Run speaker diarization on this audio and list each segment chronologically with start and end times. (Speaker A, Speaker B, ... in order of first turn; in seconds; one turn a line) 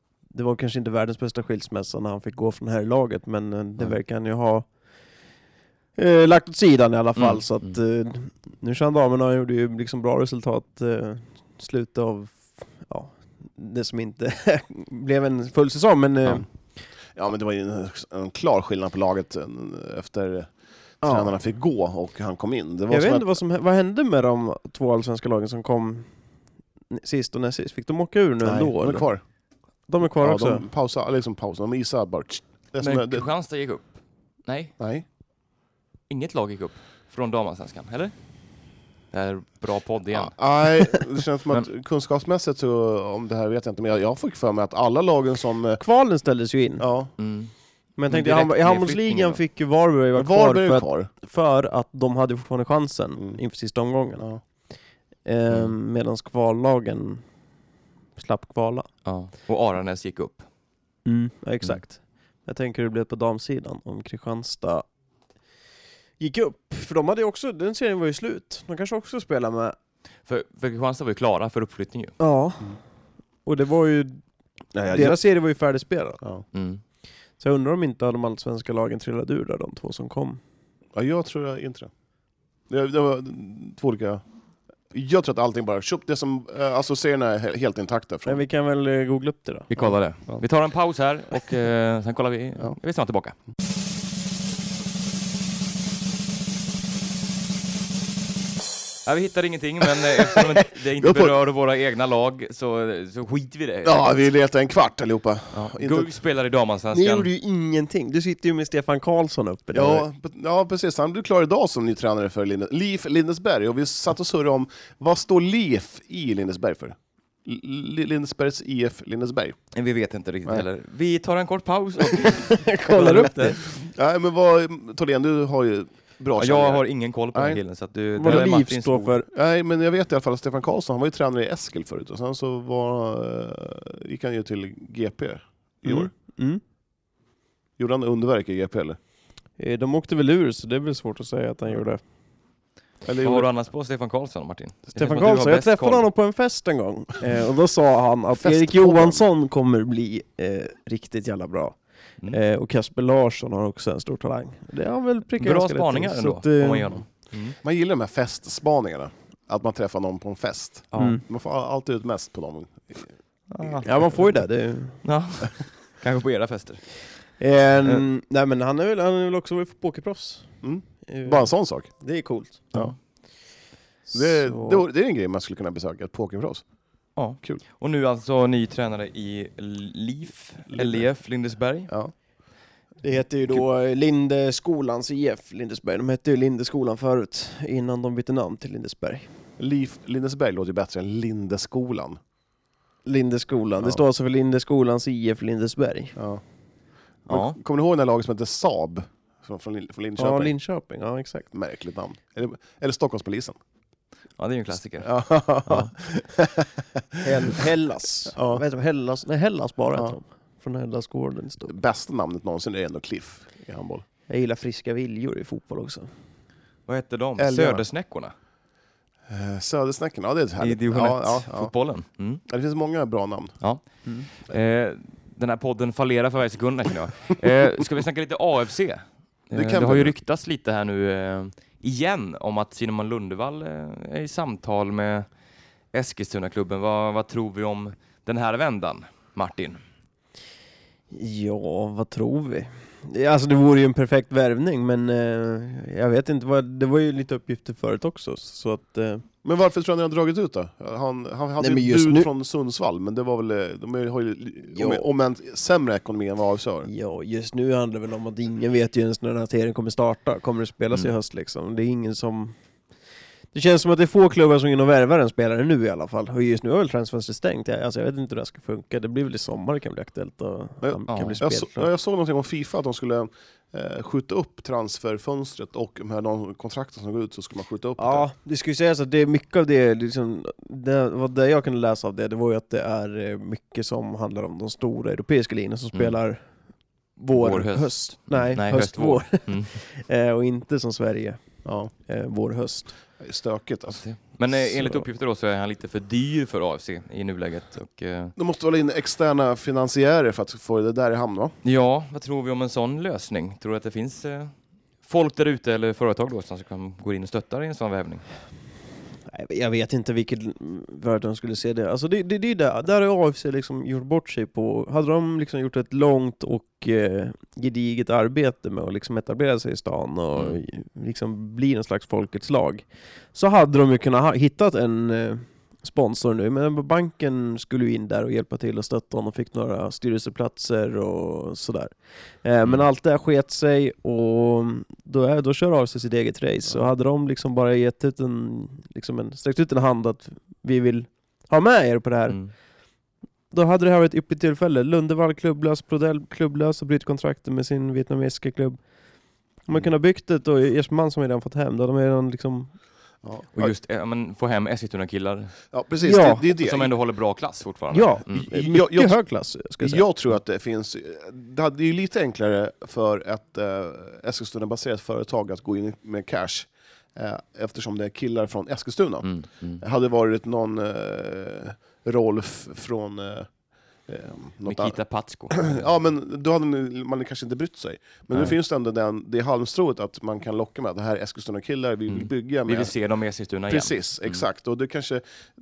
Speaker A: 0.2-5.2
Speaker A: 6.0-16.5
Speaker B: 7.2-7.8
Speaker C: 17.1-23.4
Speaker A: 21.0-21.4
Speaker A: 22.9-26.1
Speaker A: 26.9-29.1
Speaker C: 28.4-29.2
Speaker A: 29.9-30.7
Speaker C: 30.0-33.3
Speaker B: 32.8-34.7
Speaker C: 34.8-35.0
Speaker B: 36.1-38.1
Speaker B: 39.1-40.3
Speaker C: 40.1-45.8
Speaker A: 45.8-46.9
Speaker C: 46.8-47.1
Speaker B: 47.2-47.5
Speaker A: 48.0-54.3
Speaker B: 48.1-49.4
Speaker C: 50.1-51.1
Speaker A: 55.2-57.3
Speaker A: 58.1-58.9
Speaker B: 59.0-60.5
Speaker A: 61.0-64.8
Speaker A: 66.2-69.8
Speaker B: 70.2-72.1
Speaker A: 72.2-72.8
Speaker A: 73.4-76.2
Speaker C: 74.9-75.2
Speaker B: 76.5-76.8
Speaker A: 77.4-80.4
Speaker C: 80.9-81.9
Speaker C: 82.7-84.2
Speaker C: 84.9-88.4
Speaker A: 88.2-89.7
Speaker B: 89.7-93.3
Speaker C: 89.8-90.4
Speaker B: 99.0-104.1
Speaker C: 101.0-101.3
Speaker C: 103.8-106.2
Speaker B: 105.5-107.3
Speaker A: 106.9-110.0
Speaker C: 109.7-119.7
Speaker B: 119.7-123.6
Speaker A: 122.3-123.7
Speaker C: 123.8-127.6
Speaker B: 126.4-129.1
Speaker A: 128.2-129.3
Speaker C: 128.2-128.5
Speaker C: 129.3-136.1
Speaker A: 135.8-136.6
Speaker C: 137.8-139.0
Speaker A: 139.6-142.0
Speaker C: 143.0-143.5
Speaker B: 143.2-146.1
Speaker A: 144.9-157.0
Speaker C: 148.3-149.2
Speaker B: 155.4-157.6
Speaker C: 157.6-163.1
Speaker B: 160.9-161.2
Speaker A: 160.9-161.2
Speaker B: 163.5-164.3
Speaker A: 163.8-165.0
Speaker B: 165.0-166.9
Speaker A: 167.4-172.7
Speaker C: 170.6-171.9
Speaker A: 174.0-174.8
Speaker C: 174.1-176.6
Speaker B: 177.2-181.9
Speaker C: 177.2-177.6
Speaker C: 180.7-182.1
Speaker A: 183.0-189.3
Speaker C: 189.6-192.2
Speaker A: 193.0-196.1
Speaker C: 196.2-196.4
Speaker C: 197.2-200.5
Speaker B: 197.3-197.6
Speaker A: 200.2-201.5
Speaker C: 201.5-203.6
Speaker B: 204.4-205.9
Speaker C: 205.0-206.7
Speaker A: 207.2-211.7
Speaker C: 207.3-207.6
Speaker C: 208.3-208.6
Speaker C: 211.7-214.0
Speaker A: 214.3-216.1
Speaker B: 216.9-218.3
Speaker C: 217.4-217.8
Speaker C: 219.3-221.7
Speaker B: 220.6-222.4
Speaker C: 222.4-223.6
Speaker B: 223.6-235.3
Speaker C: 229.5-230.1
Speaker B: 235.9-239.8
Speaker A: 241.1-249.2
Speaker C: 249.4-256.9
Speaker A: 251.6-252.3
Speaker A: 254.7-255.1
Speaker A: 256.8-262.6
Speaker A: 263.5-271.9
Speaker C: 270.8-278.3
Speaker B: 271.1-271.4
Speaker A: 278.0-286.6
Speaker A: 287.1-293.0
Speaker B: 287.3-289.8
Speaker C: 291.6-291.9
Speaker C: 293.1-294.0
Speaker B: 293.9-298.3
Speaker C: 298.4-301.5
Speaker B: 301.6-308.2
Speaker A: 309.3-342.5
Speaker A: 343.5-348.8
Speaker A: 349.6-352.7
Speaker C: 353.2-353.7
Speaker B: 353.5-355.5
Speaker C: 355.7-356.9
Speaker A: 356.0-356.4
Speaker B: 356.5-358.5
Speaker A: 357.9-360.1
Speaker C: 358.3-373.5
Speaker B: 369.2-369.8
Speaker C: 374.1-382.9
Speaker B: 374.6-375.9
Speaker B: 382.1-384.4
Speaker C: 383.7-385.2